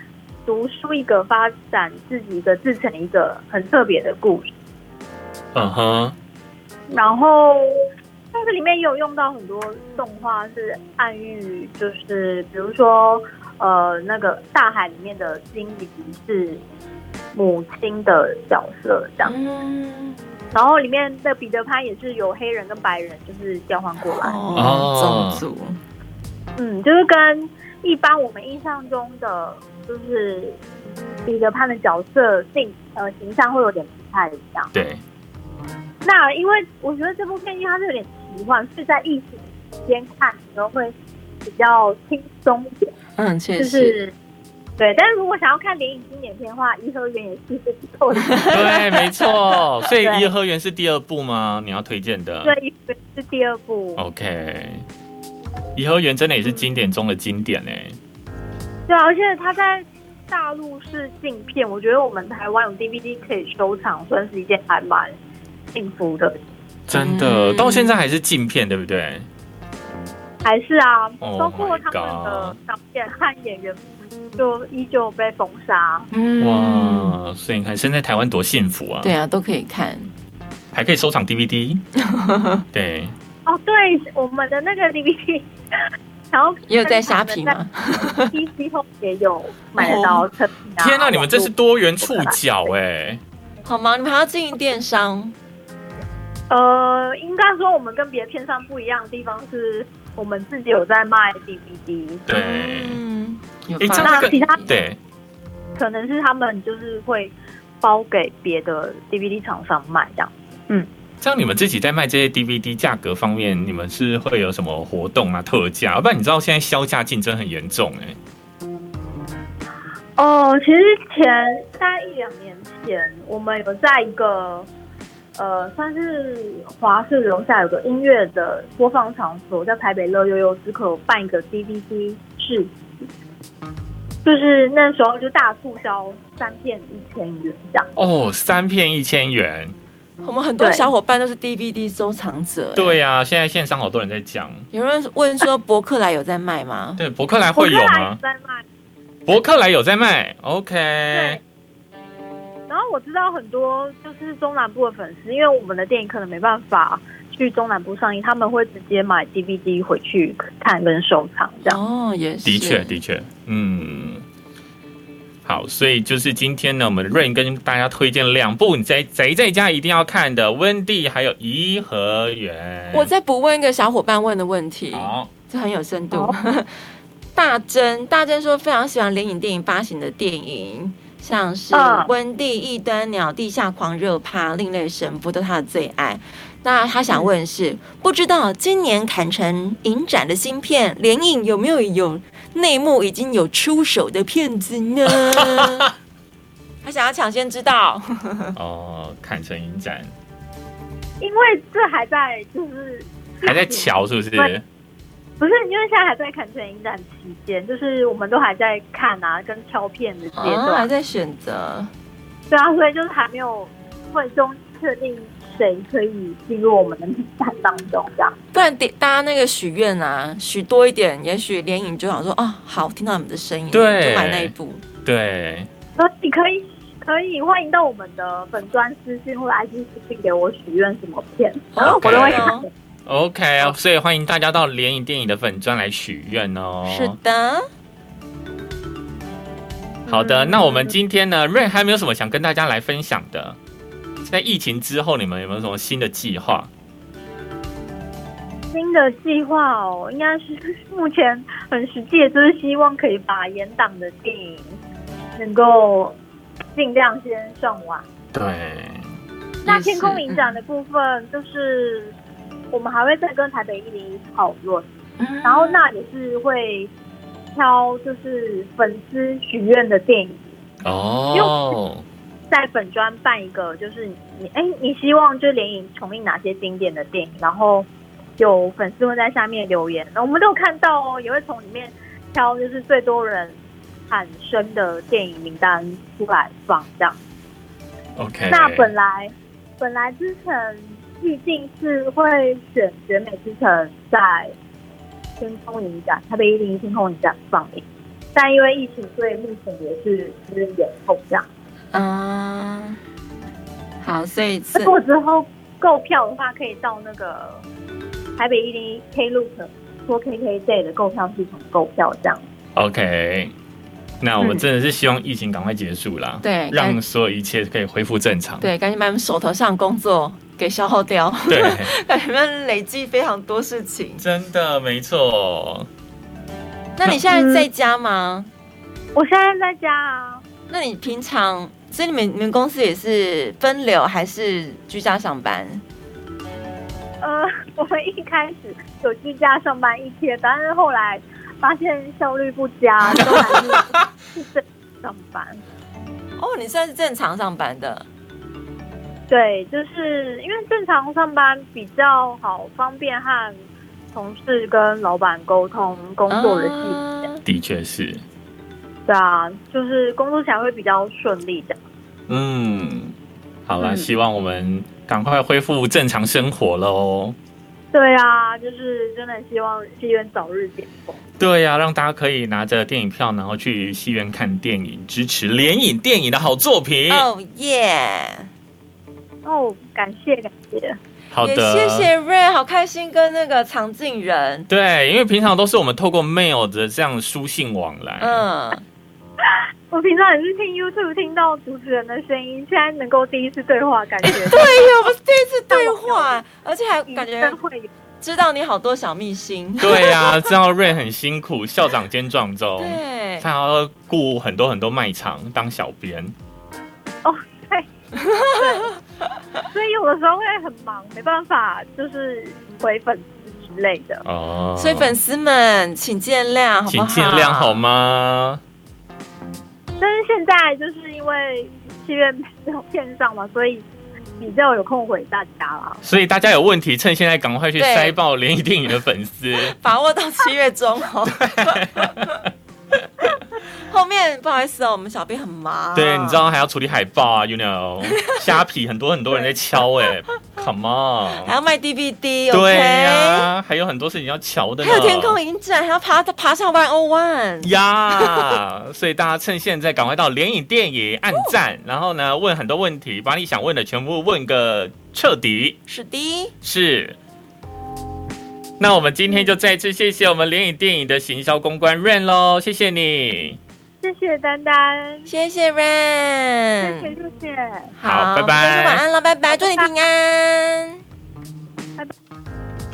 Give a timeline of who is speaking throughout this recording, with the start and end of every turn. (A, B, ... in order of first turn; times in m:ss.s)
0:00.5-0:04.5 A
0:05.5-0:06.2 B
0:06.9-0:07.8 A
0:08.3-0:16.6 A
0:17.3-0:19.3 A
0:19.2-0:20.2 C
0:20.5-0:24.4 A
0:24.0-0:25.8 C
0:24.6-0:25.4 B
0:26.6-0:30.6 A
0:31.3-0:34.7 A
0:34.7-0:35.0 B
0:36.0-0:42.9 A
0:43.2-0:44.0 C
0:43.6-0:44.1 A
0:44.8-0:49.1 A
0:48.4-0:48.8 C
0:48.5-0:52.5 B
0:50.0-0:50.3 A
0:52.4-0:54.0 A
0:54.0-0:54.8 B
0:55.8-0:58.0 B
0:58.9-1:05.2 A
1:05.7-1:06.4 A
1:06.9-1:09.3 B
1:06.9-1:07.9 C
1:10.4-1:13.8 A
1:11.2-1:12.6 B
1:14.4-1:16.1 A
1:16.1-1:17.2 C
1:16.4-1:19.1 B
1:19.0-1:20.1 C
1:20.7-1:21.9 B
1:22.0-1:22.6 C
1:22.7-1:23.2 B
1:23.5-1:32.7 A
1:26.7-1:28.3 C
1:29.8-1:30.2 C
1:30.8-1:33.2 B
1:33.6-1:35.4 C
1:36.5-1:42.3 A
1:42.3-1:43.0 B
1:42.3-1:44.7 C
1:43.8-1:45.0 B
1:44.0-1:44.6 A
1:45.8-1:50.9 A
1:51.2-1:58.2 B
2:00.2-2:04.7 A
2:05.4-2:12.8 A
2:14.2-2:17.9 A
2:18.0-2:19.8 B
2:20.2-2:23.0 C
2:20.6-2:20.9 A
2:22.8-2:24.7 B
2:24.7-2:27.0 C
2:27.0-2:28.2 B
2:27.6-2:28.6 A
2:29.3-2:31.4 B
2:31.1-2:31.4 A
2:32.7-2:41.8 A
2:41.6-2:43.0 C
2:42.4-2:44.2 B
2:45.4-2:53.1 B
2:52.9-2:56.7 C
2:54.9-2:55.3 B
2:57.4-3:15.9 C
3:01.7-3:02.1 A
3:15.4-3:15.7 B
3:16.8-3:18.6 C
3:18.6-3:20.1 B
3:21.2-3:24.5 A
3:23.4-3:24.6 B
3:25.4-3:30.9 A
3:30.4-3:31.9 C
3:32.5-3:38.4 A
3:38.5-3:44.8 C
3:43.7-3:44.5 B
3:45.0-3:45.7 B
3:46.0-3:52.7 A
3:51.7-3:52.7 C
3:51.8-3:52.5 B
3:53.1-3:57.2 B
3:56.9-3:57.7 C
4:00.1-4:03.6 B
4:00.1-4:00.8 A
4:04.2-4:06.7 B
4:08.7-4:14.8 A
4:15.4-4:16.2 A
4:16.8-4:18.0 A
4:18.3-4:19.1 B
4:19.6-4:20.6 C
4:19.7-4:22.1 A
4:22.7-4:24.9 A
4:25.2-4:25.8 C
4:25.4-4:26.9 A
4:27.6-4:30.6 A
4:30.8-4:32.0 B
4:31.3-4:31.8 A
4:32.5-4:37.9 A
4:38.4-4:43.6 A
4:44.1-4:47.2 A
4:48.2-4:48.9 B
4:48.5-4:54.5 A
4:55.4-4:57.8 A
4:58.4-5:01.5 A
5:01.9-5:03.0 C
5:04.0-5:05.0 C
5:04.7-5:07.6 A
5:08.4-5:12.4 A
5:12.8-5:13.5 B
5:14.2-5:18.7 B
5:16.4-5:17.0 C
5:18.6-5:24.2 C
5:21.5-5:21.9 B
5:24.2-5:25.9 B
5:27.0-5:28.5 C
5:27.3-5:27.7 A
5:29.2-5:30.4 A
5:30.7-5:35.8 C
5:37.2-5:45.6 A
5:46.4-5:48.1 C
5:49.3-5:53.6 A
5:54.1-5:57.3 A
5:56.3-5:57.4 C
5:57.4-5:58.2 B
5:59.1-6:01.8 A
6:02.3-6:03.1 B
6:03.7-6:07.4 B
6:03.8-6:04.1 A
6:07.9-6:11.2 A
6:11.4-6:17.3 B
6:17.1-6:18.5 C
6:19.4-6:21.0 A
6:21.3-6:22.1 B
6:21.4-6:24.7 C
6:24.7-6:28.4 B
6:28.2-6:28.8 C
6:29.4-6:34.8 A
6:34.2-6:37.6 C
6:35.7-6:36.4 A
6:37.1-6:37.9 A
6:38.2-6:40.6 C
6:39.8-6:46.3 B
6:42.8-6:43.5 C
6:47.2-6:47.9 A
6:48.2-6:48.9 C
6:48.5-6:49.0 A
6:49.7-6:54.2 A
6:54.2-6:55.2 B
6:54.8-6:57.8 C
6:56.9-6:58.6 B
7:00.0-7:03.8 A
7:04.4-7:06.0 A
7:06.0-7:09.8 B
7:07.8-7:08.2 C
7:09.6-7:12.3 C
7:11.4-7:12.4 B
7:12.9-7:13.4 B
7:13.9-7:16.4 C
7:16.0-7:21.5 B
7:18.1-7:18.5 C
7:21.4-7:23.5 C
7:22.5-7:25.4 B
7:24.8-7:28.6 C
7:27.6-7:35.8 B
7:35.9-7:36.5 C
7:36.6-7:37.2 B
7:38.8-7:43.6 B
7:44.0-7:45.3 A
7:45.3-7:47.1 C
7:46.8-7:47.9 A
7:48.0-7:51.0 C
7:48.0-7:49.0 B
7:49.5-7:49.9 A